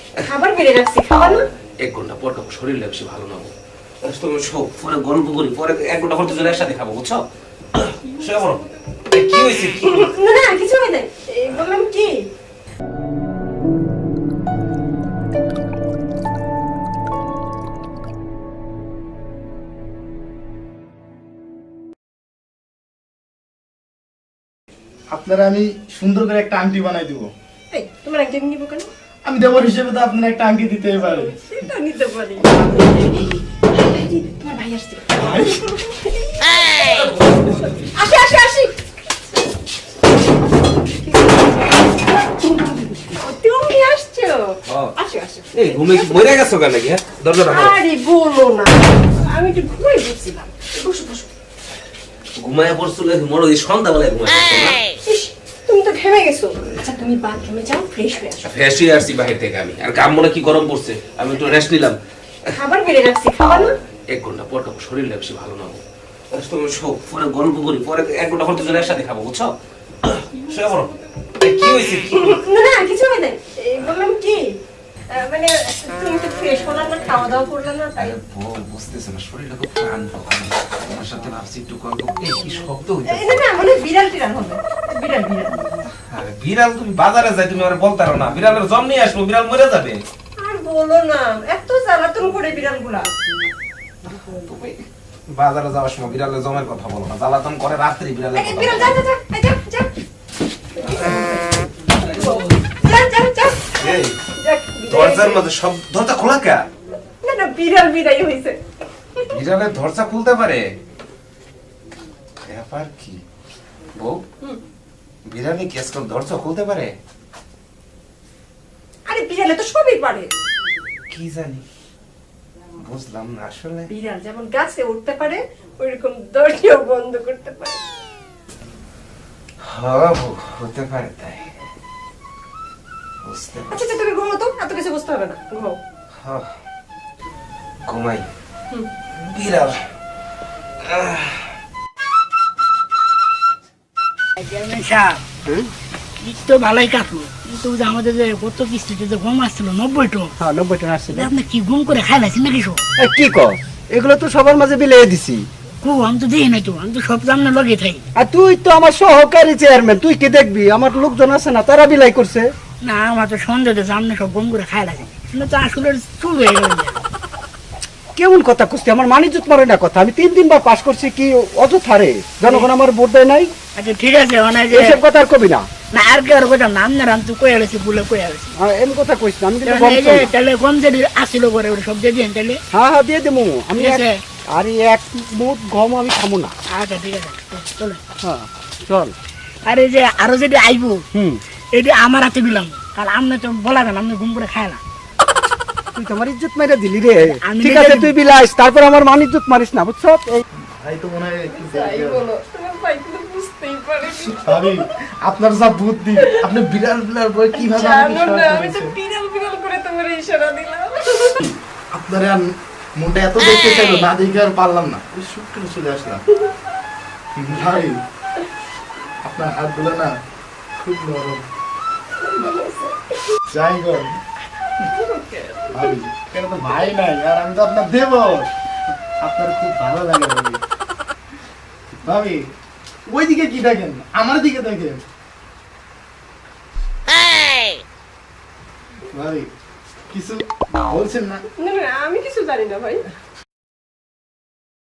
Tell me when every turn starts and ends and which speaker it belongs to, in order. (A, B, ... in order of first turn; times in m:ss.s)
0:00.3-0:01.4 A
0:01.8-0:03.5 B
0:04.0-0:07.2 B
0:07.7-0:10.1 B
0:09.8-0:12.2 A
0:25.1-0:27.3 C
0:27.7-0:28.9 A
0:29.2-0:31.4 C
0:30.9-0:38.8 A
0:35.2-0:35.6 C
0:36.8-0:37.9 B
0:40.8-0:46.4 A
0:45.6-0:47.8 B
0:47.4-0:51.3 A
0:52.4-0:54.8 B
0:55.1-0:58.4 A
0:58.4-1:02.0 B
1:02.6-1:03.8 A
1:04.1-1:05.8 B
1:06.3-1:09.5 B
1:10.0-1:12.4 B
1:12.1-1:14.4 A
1:15.1-1:18.2 A
1:18.0-1:23.4 B
1:23.1-1:25.9 A
1:26.1-1:30.0 B
1:30.4-1:33.1 A
1:34.1-1:39.0 B
1:38.3-1:39.9 A
1:40.8-1:45.4 A
1:43.8-1:44.2 B
1:44.9-1:46.7 B
1:47.2-1:48.6 A
1:49.3-1:50.6 B
1:52.5-1:53.2 B
1:54.0-1:54.2 B
1:55.3-1:57.0 B
1:59.1-2:00.3 A
2:01.1-2:01.6 B
2:02.8-2:03.9 B
2:03.9-2:07.8 A
2:09.6-2:11.5 B
2:13.2-2:13.8 B
2:13.7-2:15.8 A
2:16.2-2:16.5 B
2:17.9-2:18.3 B
2:19.2-2:19.8 B
2:20.8-2:21.5 B
2:24.4-2:25.2 D
2:26.2-2:30.4 D
2:30.4-2:31.3 E
2:31.1-2:32.8 D
2:33.0-2:35.4 E
2:35.8-2:38.0 D
2:38.2-2:42.5 E
2:42.8-2:47.0 D
2:48.2-2:53.5 E
2:53.8-2:55.0 D
2:54.7-2:55.7 E
2:55.9-2:58.5 D
2:58.6-3:00.3 E
2:59.7-3:02.6 D
3:02.7-3:06.5 E
3:03.8-3:04.2 D
3:06.7-3:08.0 D
3:08.2-3:09.2 E
3:09.7-3:11.0 D
3:11.1-3:11.4 E
3:11.7-3:14.8 D
3:16.0-3:20.4 E
3:17.3-3:18.1 D
3:20.7-3:22.3 C
3:21.5-3:24.9 A
3:24.2-3:29.0 C
3:26.2-3:26.5 A
3:27.5-3:31.4 A
3:31.9-3:36.2 C
3:37.4-3:38.0 C
3:39.2-3:40.1 C
3:40.8-3:41.4 C
3:42.2-3:43.2 A
3:43.5-3:44.2 C
3:44.9-3:46.0 A
3:45.7-3:48.5 C
3:49.2-3:50.6 C
3:52.0-3:52.4 C
3:53.1-3:55.0 C
3:59.1-3:59.5 C
4:00.1-4:01.4 C
4:01.6-4:03.1 A